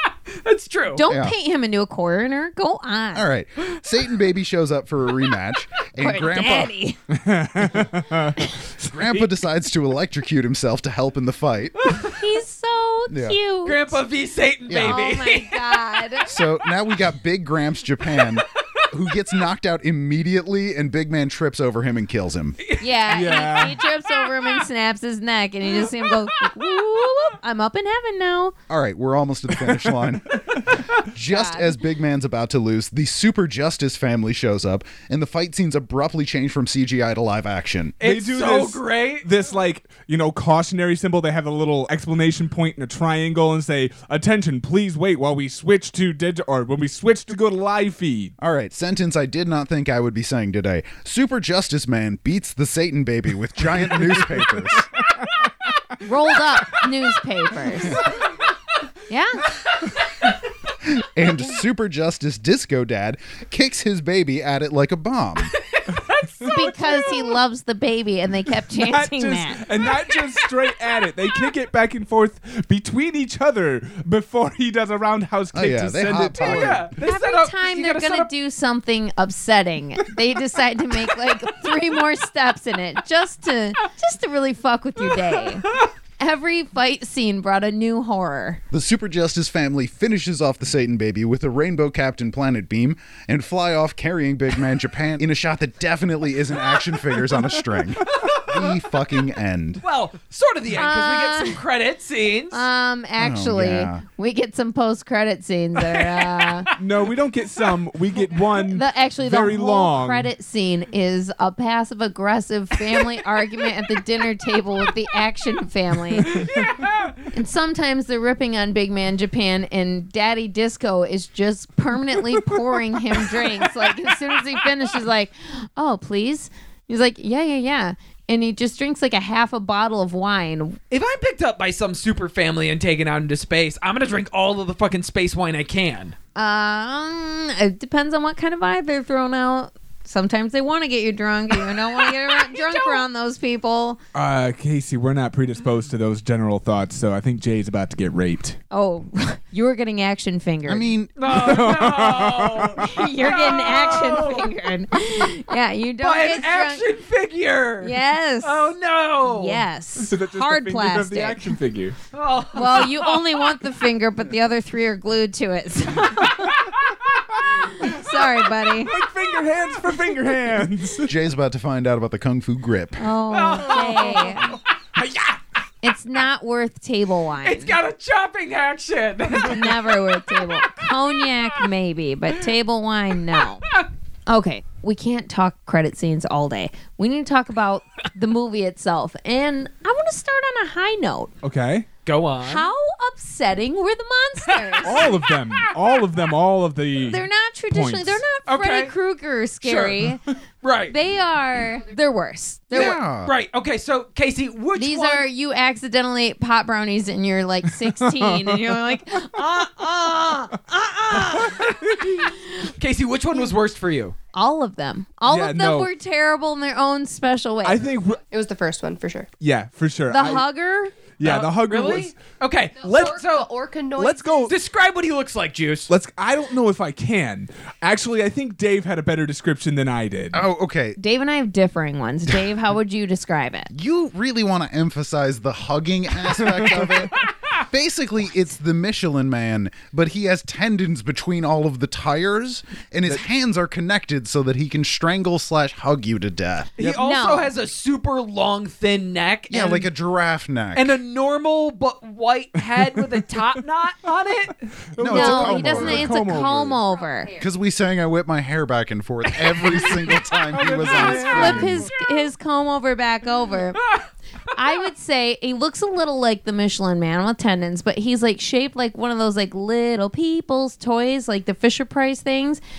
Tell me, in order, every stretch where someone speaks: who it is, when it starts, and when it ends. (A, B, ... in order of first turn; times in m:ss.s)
0:00.3-0:01.0 A
0:01.0-0:03.3 B
0:01.1-0:01.4 C
0:03.1-0:06.7 C
0:06.0-0:07.0 B
0:07.1-0:08.4 D
0:08.8-0:11.8 C
0:11.8-0:12.2 A
0:12.0-0:14.0 B
0:13.1-0:13.4 C
0:13.6-0:16.1 A
0:14.7-0:15.2 C
0:14.8-0:16.3 B
0:16.3-0:22.6 C
0:18.2-0:18.9 A
0:22.6-0:23.0 A
0:22.8-0:28.6 B
0:23.1-0:23.8 D
0:24.1-0:24.5 A
0:25.7-0:26.8 A
0:28.7-0:38.0 C
0:29.6-0:30.5 D
0:31.3-0:31.8 B
0:38.0-0:39.3 A
0:38.0-0:48.3 D
0:48.4-0:54.9 C
0:56.0-0:58.1 B
0:59.1-0:59.6 B
0:59.7-1:00.0 A
1:00.8-1:05.5 C
1:05.7-1:07.2 A
1:06.4-1:09.6 B
1:08.7-1:16.9 D
1:09.9-1:10.2 A
1:15.5-1:16.9 C
1:16.4-1:18.3 A
1:17.0-1:28.6 B
1:25.0-1:25.9 A
1:28.7-1:39.8 C
1:38.0-1:38.8 A
1:39.8-1:42.6 A
1:40.8-1:41.6 B
1:42.5-1:46.7 B
1:43.2-1:44.0 C
1:45.8-1:46.8 A
1:46.8-1:50.3 D
1:48.7-1:56.5 B
1:56.3-1:57.3 A
1:57.3-2:10.8 B
2:02.3-2:03.6 D
2:10.9-2:16.2 A
2:16.4-2:24.0 B
2:21.7-2:23.0 A
2:24.1-2:28.6 D
2:28.7-2:30.9 B
2:30.7-2:31.8 C
2:31.2-2:34.5 A
2:31.3-2:33.1 D
2:32.8-2:36.8 B
2:36.0-2:39.6 A
2:37.8-2:38.7 B
2:39.2-2:41.5 B
2:40.0-2:42.0 D
2:42.1-2:43.6 A
2:42.6-2:46.8 B
2:47.5-2:48.9 B
2:47.8-2:48.2 D
2:48.8-2:51.1 D
2:51.1-2:53.1 C
2:53.0-2:54.6 B
2:53.3-2:55.3 A
2:55.8-2:57.8 B
2:57.4-3:00.2 A
2:59.3-3:11.3 B
3:11.4-3:11.9 D
3:12.0-3:12.7 A
3:12.4-3:15.2 B
3:14.5-3:15.4 A
3:14.8-3:18.2 D
3:17.0-3:20.2 B
3:18.5-3:18.9 A
3:19.6-3:20.1 A
3:20.6-3:21.0 A
3:20.9-3:23.0 B
3:22.7-3:25.3 A
3:22.7-3:23.3 C
3:24.8-3:31.6 B
3:27.9-3:29.0 D
3:29.3-3:34.2 A
3:31.1-3:32.1 D
3:34.3-3:37.9 B
3:35.3-3:35.9 D
3:37.6-3:38.2 D
3:38.3-3:39.3 E
3:39.4-3:40.5 D
3:40.1-3:41.0 B
3:41.2-3:42.1 D
3:41.2-3:43.5 A
3:42.8-3:44.6 E
3:44.0-3:44.5 D
3:44.5-3:45.9 A
3:45.9-3:50.4 D
3:50.3-3:51.0 C
3:51.0-3:53.7 B
3:53.7-4:06.8 C
4:06.8-4:09.9 A
4:06.8-4:07.5 B
4:09.5-4:11.0 C
4:10.7-4:14.6 A
4:12.8-4:13.4 D
4:14.9-4:16.8 D
4:15.0-4:16.2 C
4:15.0-4:17.3 B
4:16.7-4:17.5 E
4:17.4-4:21.8 C
4:19.3-4:20.2 A
4:20.5-4:21.8 D
4:20.9-4:22.3 A
4:21.0-4:23.8 B
4:23.8-4:24.1 A
4:24.6-4:32.6 B